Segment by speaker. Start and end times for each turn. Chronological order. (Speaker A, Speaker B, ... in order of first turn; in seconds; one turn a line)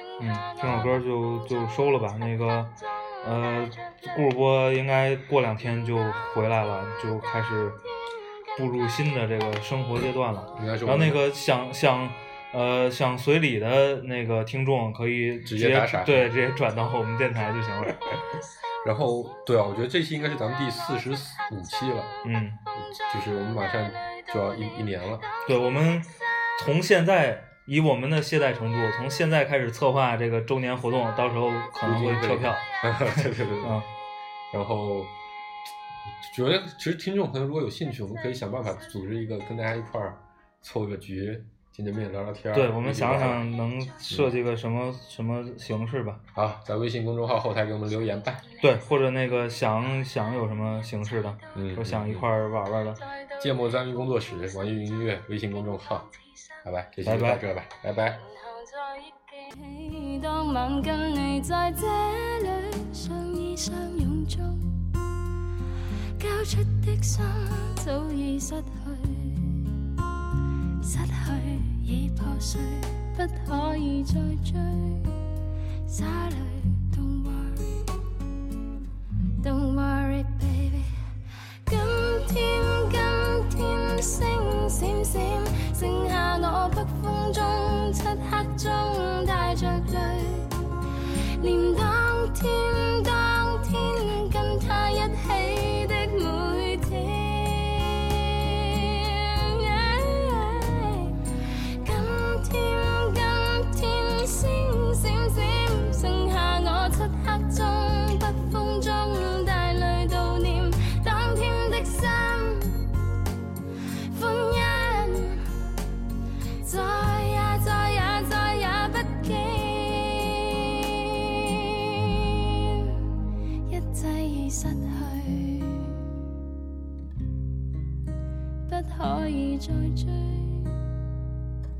Speaker A: 0.2-7.8
Speaker B: 0.6-1.0
Speaker A: 8.5-18.0
Speaker B: 10.5-11.2
Speaker B: 15.4-16.3
Speaker B: 18.8-22.1
Speaker A: 22.2-22.6
Speaker B: 22.8-25.2
Speaker A: 25.4-33.9
Speaker B: 31.8-33.8
Speaker B: 34.5-35.1
Speaker B: 36.2-43.4
Speaker A: 42.5-46.2
Speaker B: 46.3-48.5
Speaker A: 48.6-53.0
Speaker B: 51.5-52.3
Speaker B: 53.4-56.1
Speaker B: 56.6-58.2
Speaker A: 57.0-57.4
Speaker C: 58.9-64.8
Speaker C: 66.2-69.9
Speaker C: 70.8-75.2
Speaker C: 75.8-77.9
Speaker C: 79.4-81.0
Speaker C: 81.6-90.8
Speaker C: 91.4-113.0
Speaker C: 114.1-115.4
Speaker C: 116.6-123.1
Speaker C: 123.7-126.1
Speaker C: 128.7-130.9